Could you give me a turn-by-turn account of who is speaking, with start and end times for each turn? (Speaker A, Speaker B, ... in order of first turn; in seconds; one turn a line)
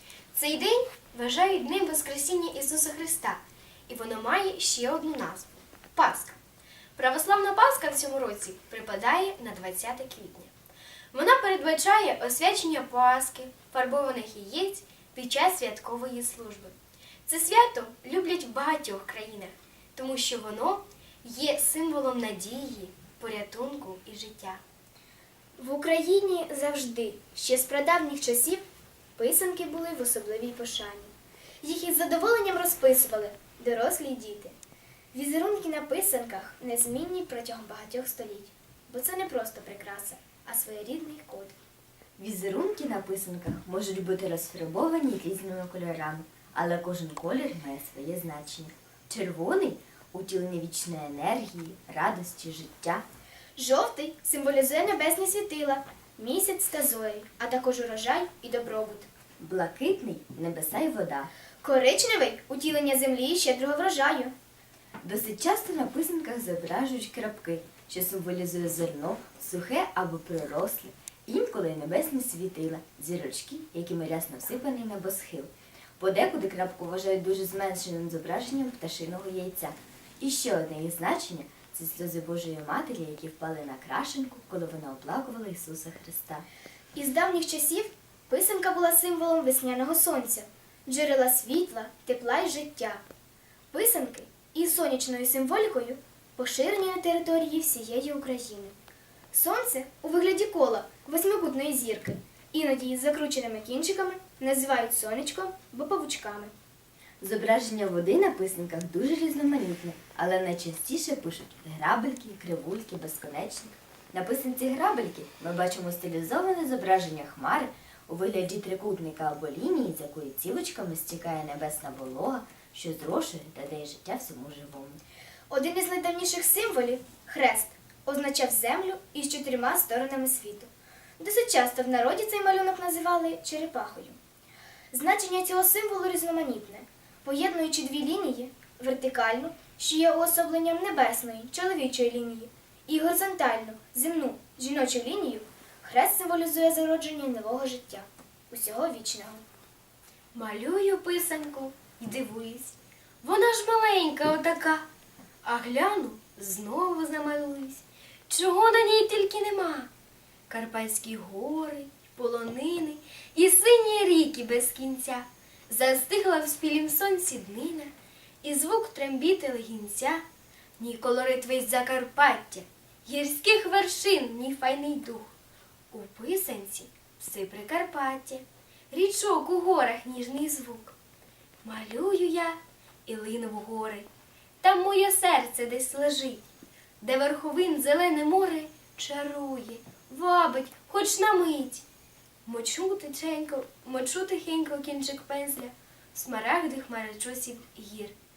Speaker A: 0.3-6.4
Speaker A: 7.0-10.5
Speaker A: 11.1-16.8
Speaker A: 17.3-24.6
Speaker B: 25.6-28.6
Speaker B: 29.2-34.5
Speaker B: 35.1-41.5
Speaker C: 42.2-53.0
Speaker B: 53.6-59.1
Speaker C: 59.4-61.3
Speaker B: 61.6-64.3
Speaker C: 65.0-86.5
Speaker B: 87.0-93.0
Speaker B: 93.7-98.8
Speaker B: 99.3-106.5
Speaker C: 107.2-125.0
Speaker B: 125.5-134.2
Speaker B: 134.9-149.4
Speaker A: 150.3-154.8
Speaker A: 155.4-159.9
Speaker A: 160.5-170.2
Speaker A: 170.8-175.3
Speaker A: 175.9-181.0
Speaker A: 181.6-184.1
Speaker A: 184.6-186.4
Speaker A: 187.0-191.8
Speaker A: 192.4-198.1